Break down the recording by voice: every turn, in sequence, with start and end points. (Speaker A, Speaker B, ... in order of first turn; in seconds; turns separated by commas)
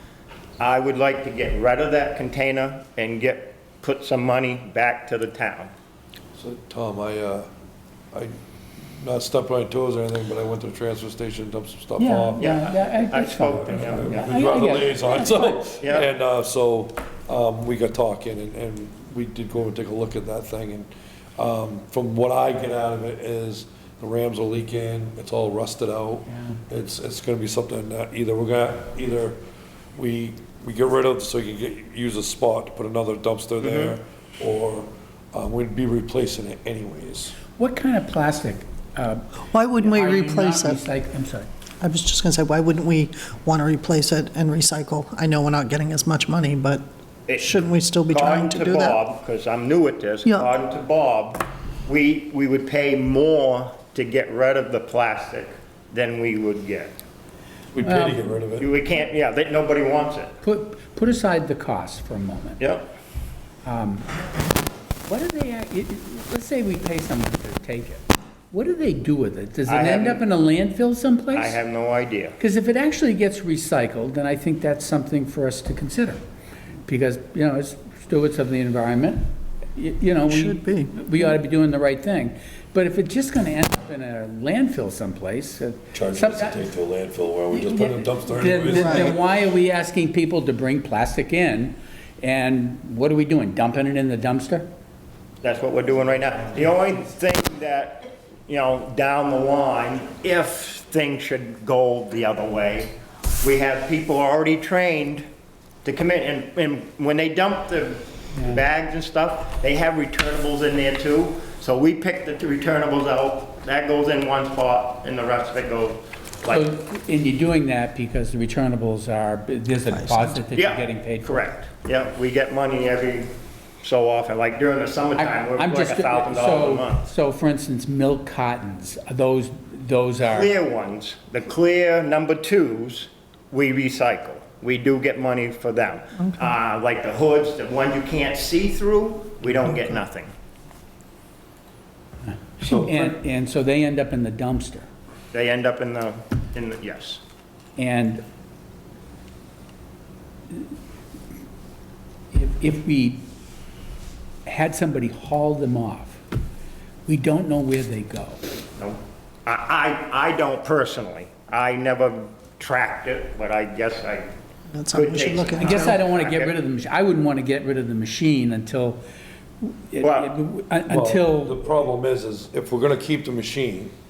Speaker A: 0.6-5.7, Speaker B: 6.4-7.5, Speaker B: 8.1-12.4, Speaker C: 12.0-15.6, Speaker A: 12.4-14.4, Speaker B: 13.6-29.4, Speaker A: 15.8-16.1, Speaker C: 26.3-26.6, Speaker B: 30.0-37.4, Speaker A: 33.6-33.9, Speaker C: 37.6-41.5, Speaker D: 39.5-40.8, Speaker D: 41.8-46.9, Speaker A: 47.3-56.9, Speaker D: 47.4-49.0, Speaker D: 50.2-50.5, Speaker B: 57.7-58.7, Speaker C: 57.8-58.2, Speaker A: 58.6-60.3, Speaker C: 60.4-62.6, Speaker A: 62.6-62.9, Speaker C: 63.6-64.1, Speaker C: 65.1-71.6, Speaker A: 69.7-70.2, Speaker A: 71.3-72.4, Speaker C: 72.4-76.2, Speaker C: 76.9-79.2, Speaker C: 79.8-86.6, Speaker D: 80.3-81.3, Speaker B: 85.9-89.2, Speaker C: 87.5-94.7, Speaker D: 88.7-89.1, Speaker A: 95.4-105.2, Speaker A: 105.8-116.7, Speaker C: 108.3-108.6, Speaker C: 116.5-121.5, Speaker D: 119.9-120.5, Speaker A: 120.5-123.3, Speaker A: 123.8-127.0, Speaker C: 125.2-130.5, Speaker A: 130.3-140.3, Speaker C: 142.6-144.9, Speaker B: 142.6-143.1, Speaker A: 145.3-147.2, Speaker C: 147.8-148.2, Speaker C: 152.3-153.3, Speaker C: 154.5-156.2, Speaker C: 157.1-158.4, Speaker A: 158.8-164.3, Speaker D: 164.7-166.0, Speaker A: 164.9-166.5, Speaker C: 165.6-169.0, Speaker C: 169.6-171.6, Speaker A: 170.0-170.3, Speaker B: 170.9-173.9